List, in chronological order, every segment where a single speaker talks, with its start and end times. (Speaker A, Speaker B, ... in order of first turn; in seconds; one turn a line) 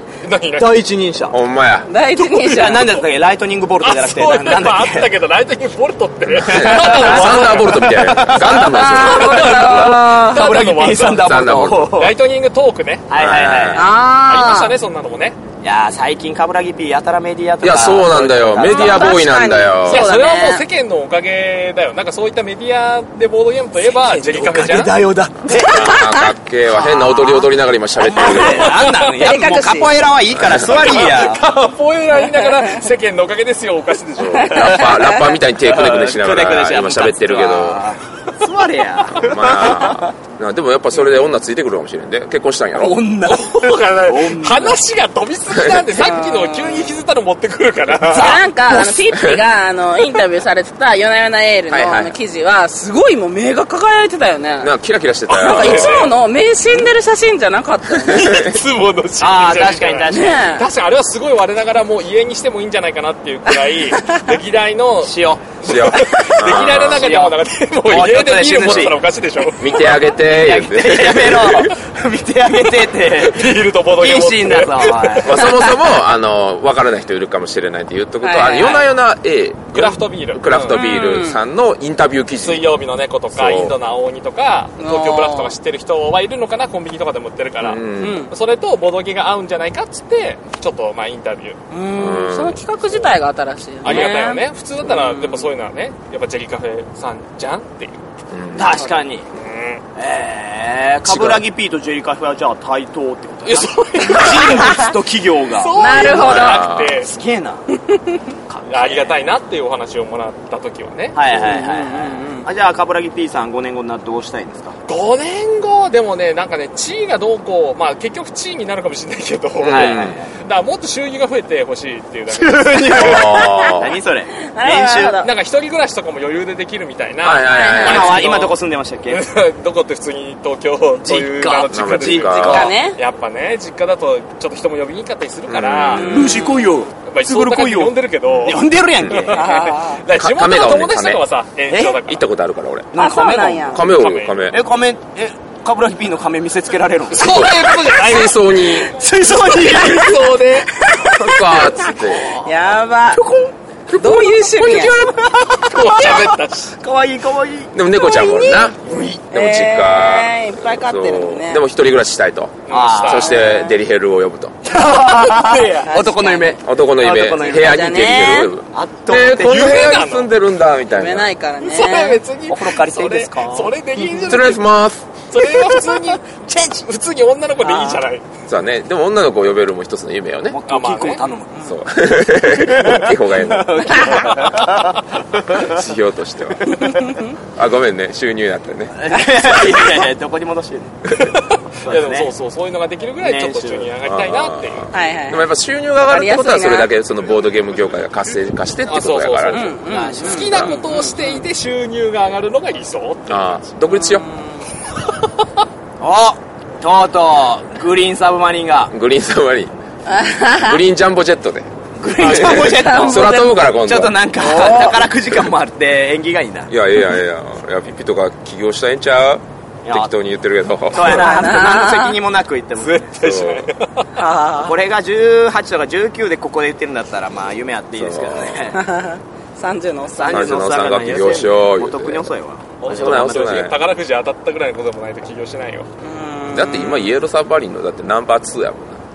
Speaker A: 0.2-0.7
Speaker B: 0.6-1.4
Speaker C: 1.3-1.9
Speaker D: 1.9-3.0
Speaker B: 2.2-5.1
Speaker A: 3.8-8.1
Speaker C: 6.3-9.7
Speaker B: 6.5-9.0
Speaker D: 8.7-10.5
Speaker A: 8.9-11.4
Speaker B: 9.7-12.1
Speaker C: 11.2-11.9
Speaker A: 11.9-13.1
Speaker B: 13.1-13.9
Speaker C: 13.1-13.9
Speaker D: 13.7-14.8
Speaker A: 14.0-15.4
Speaker B: 15.6-19.2
Speaker C: 17.6-20.1
Speaker D: 18.6-20.6
Speaker A: 19.8-24.9
Speaker B: 24.0-26.1
Speaker D: 25.6-26.3
Speaker C: 25.6-28.8
Speaker B: 26.7-27.4
Speaker B: 28.0-31.4
Speaker D: 28.8-30.0
Speaker C: 30.3-31.1
Speaker A: 30.6-34.9
Speaker D: 32.4-32.8
Speaker C: 34.2-37.8
Speaker D: 34.4-35.3
Speaker B: 34.7-40.1
Speaker C: 39.1-43.0
Speaker B: 42.8-44.8
Speaker A: 43.3-48.4
Speaker C: 45.5-45.9
Speaker D: 45.9-47.0
Speaker D: 48.1-54.7
Speaker C: 48.7-49.4
Speaker C: 51.7-52.2
Speaker C: 54.6-56.1
Speaker A: 55.3-56.2
Speaker D: 55.3-58.5
Speaker A: 58.1-70.0
Speaker C: 58.1-58.6
Speaker B: 59.2-60.5
Speaker D: 60.1-60.7
Speaker D: 63.9-64.3
Speaker B: 65.0-65.5
Speaker C: 65.6-67.2
Speaker B: 66.5-69.0
Speaker C: 68.4-69.0
Speaker C: 69.5-71.7
Speaker B: 70.2-75.6
Speaker A: 73.0-75.6
Speaker C: 75.2-82.7
Speaker D: 78.2-78.8
Speaker A: 79.7-80.8
Speaker D: 80.7-81.4
Speaker A: 82.4-91.6
Speaker C: 83.3-83.8
Speaker D: 84.8-85.5
Speaker C: 87.6-88.2
Speaker D: 88.0-88.3
Speaker D: 91.7-95.5
Speaker C: 92.0-92.6
Speaker A: 93.8-98.0
Speaker C: 98.3-98.8
Speaker B: 98.5-99.2
Speaker A: 99.3-99.8
Speaker B: 100.0-107.6
Speaker C: 101.0-101.4
Speaker A: 103.5-104.8
Speaker A: 105.5-107.1
Speaker D: 105.8-106.6
Speaker C: 106.0-107.0
Speaker D: 107.7-108.2
Speaker B: 108.5-109.2
Speaker A: 108.7-111.2
Speaker B: 111.2-114.8
Speaker D: 111.4-112.5
Speaker A: 114.9-123.7
Speaker C: 119.6-120.2
Speaker B: 119.6-120.3
Speaker B: 122.3-125.2
Speaker C: 122.9-124.0
Speaker D: 124.3-125.3
Speaker A: 125.2-128.6
Speaker C: 127.2-128.2
Speaker D: 127.5-128.2
Speaker B: 127.8-129.2
Speaker A: 129.1-136.4
Speaker B: 131.1-132.7
Speaker C: 131.7-132.7
Speaker D: 132.4-133.0
Speaker C: 135.5-136.4
Speaker D: 135.9-136.7
Speaker B: 136.0-139.5
Speaker A: 137.0-142.2
Speaker C: 138.3-138.6
Speaker D: 139.3-140.0
Speaker C: 140.1-141.2
Speaker B: 141.7-142.0
Speaker C: 142.0-142.9
Speaker B: 142.9-143.8
Speaker D: 143.0-143.8
Speaker C: 143.7-144.6
Speaker A: 143.8-144.4
Speaker B: 144.5-147.5
Speaker A: 147.1-150.8
Speaker C: 147.1-148.9
Speaker B: 148.9-150.2
Speaker D: 150.8-151.6
Speaker C: 151.2-152.3
Speaker B: 151.2-152.6
Speaker D: 152.4-153.2
Speaker B: 153.1-153.5
Speaker C: 153.9-155.1
Speaker D: 153.9-155.0
Speaker B: 154.7-157.7
Speaker A: 155.7-156.7
Speaker C: 157.7-164.6
Speaker D: 157.9-158.8
Speaker B: 158.8-159.2
Speaker D: 159.3-161.6
Speaker A: 162.7-163.3
Speaker B: 162.7-163.4
Speaker D: 163.3-163.8
Speaker B: 164.7-168.1
Speaker D: 165.7-166.6
Speaker C: 166.6-171.3
Speaker D: 167.5-168.5
Speaker B: 168.7-169.8
Speaker A: 169.4-170.3
Speaker D: 170.9-172.2
Speaker A: 171.6-174.6
Speaker B: 172.5-174.5
Speaker C: 174.3-175.1
Speaker A: 175.3-178.2
Speaker B: 176.5-176.9
Speaker B: 177.6-178.1
Speaker C: 178.5-180.6
Speaker B: 180.5-181.5
Speaker A: 180.7-181.2
Speaker C: 181.6-184.1
Speaker B: 182.5-185.8
Speaker A: 184.3-184.6
Speaker C: 185.6-186.7
Speaker D: 186.7-187.4
Speaker C: 187.6-189.8
Speaker B: 189.0-191.0
Speaker A: 191.1-194.9
Speaker B: 191.8-192.3
Speaker B: 193.2-193.9
Speaker C: 194.0-199.7
Speaker D: 194.9-195.5
Speaker D: 196.1-196.9
Speaker A: 198.9-203.6
Speaker D: 199.5-201.4
Speaker B: 199.9-200.6
Speaker C: 200.5-200.8
Speaker C: 203.3-204.3
Speaker D: 203.9-204.7
Speaker B: 206.0-208.9
Speaker C: 208.9-209.7
Speaker D: 210.1-210.8
Speaker C: 210.6-211.7
Speaker B: 212.0-216.7
Speaker A: 212.1-212.8
Speaker C: 212.2-214.2
Speaker D: 212.4-213.4
Speaker D: 214.4-215.1
Speaker C: 216.7-221.5
Speaker B: 219.8-220.1
Speaker B: 220.9-223.1
Speaker D: 220.9-222.2
Speaker A: 222.8-224.1
Speaker C: 223.2-223.7
Speaker D: 224.2-224.8
Speaker B: 224.6-228.8
Speaker C: 228.0-228.7
Speaker D: 228.7-230.6
Speaker B: 230.2-233.6
Speaker C: 230.3-232.3
Speaker A: 232.8-235.9
Speaker C: 232.9-233.8
Speaker D: 236.0-237.2
Speaker C: 236.5-239.0